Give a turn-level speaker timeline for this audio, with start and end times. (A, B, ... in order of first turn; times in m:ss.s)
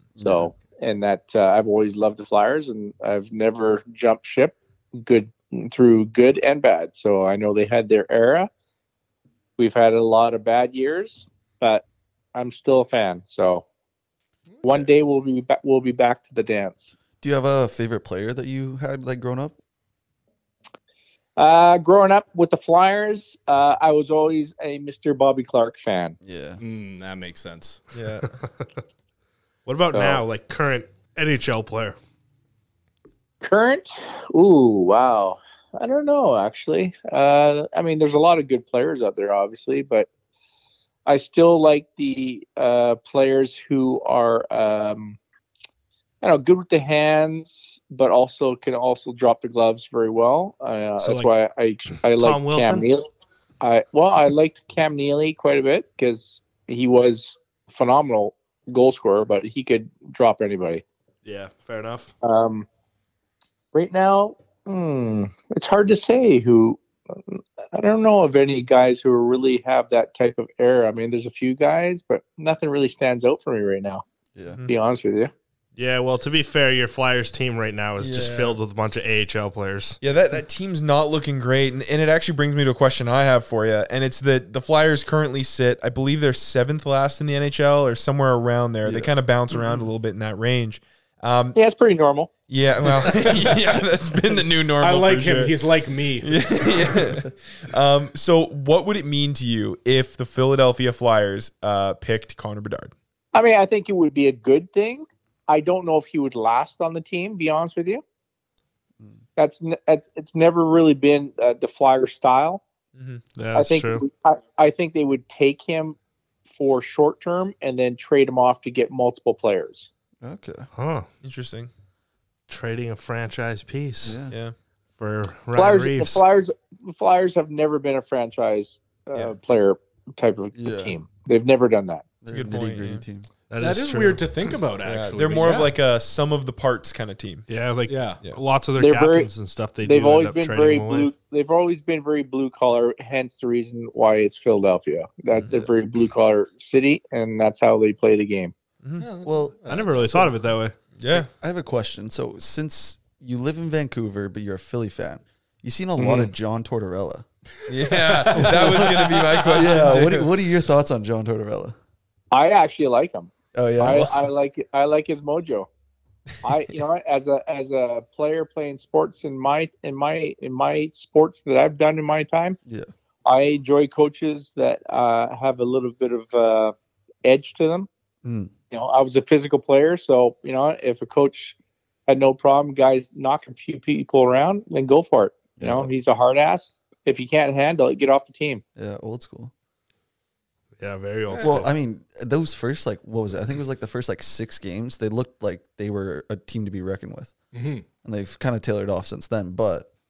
0:00.2-0:00.5 A
0:00.2-0:08.5 B
0:09.6-0:11.8 B
0:12.3-0:13.6 B
0:14.6-0:16.9 B
0:17.2-0:19.6 A
0:21.4-0:26.2 B
0:26.2-0:26.6 A
0:26.6-0:27.8 C
0:27.9-0:28.4 D
0:28.2-0:28.6 E
0:29.6-0:32.0 E
0:29.9-0:30.2 B
0:33.4-0:40.1 B
0:41.0-0:45.2 B
0:46.2-0:53.1 B
0:51.0-0:51.3 E
0:52.0-0:52.9 E
0:53.6-1:00.8 B
1:01.2-1:02.1 E
1:02.2-1:02.7 B
1:03.7-1:14.0 B
1:14.7-1:15.3 B
1:15.8-1:20.0 E
1:18.0-1:18.6 D
1:20.0-1:31.6 D
1:28.8-1:29.9 A
1:31.5-1:32.3 B
1:32.5-1:35.6 D
1:33.1-1:33.8 C
1:34.8-1:36.7 C
1:36.2-1:42.9 D
1:43.3-1:48.0 B
1:49.4-1:52.6 B
1:53.0-1:53.2 D
1:53.4-1:54.0 E
1:53.5-1:56.0 B
1:56.5-1:59.9 B
2:00.2-2:00.6 A
2:00.7-2:01.1 E
2:01.2-2:01.7 D
2:02.5-2:04.2 E
2:04.0-2:04.3 A
2:05.0-2:06.2 E
2:05.5-2:12.0 B
2:10.5-2:10.9 A
2:12.2-2:13.3 A
2:12.3-2:13.0 D
2:13.5-2:14.3 E
2:13.6-2:15.7 C
2:14.8-2:17.5 D
2:17.5-2:21.1 E
2:17.9-2:18.2 C
2:18.8-2:28.5 B
2:29.0-2:30.0 C
2:29.2-2:30.3 A
2:29.7-2:30.8 E
2:31.0-2:31.3 D
2:31.1-2:37.2 A
2:37.7-2:40.3 D
2:37.9-2:39.8 C
2:38.3-2:38.8 A
2:39.5-2:41.8 A
2:42.3-2:45.7 B
2:43.5-2:44.1 A
2:46.4-2:52.6 B
2:53.2-2:57.9 B
2:58.2-2:58.5 A
2:58.7-3:01.6 B
3:02.1-3:08.6 B
3:05.6-3:05.9 A
3:08.8-3:09.5 A
3:10.8-3:11.7 E
3:11.4-3:17.3 A
3:17.5-3:17.8 C
3:18.0-3:19.9 A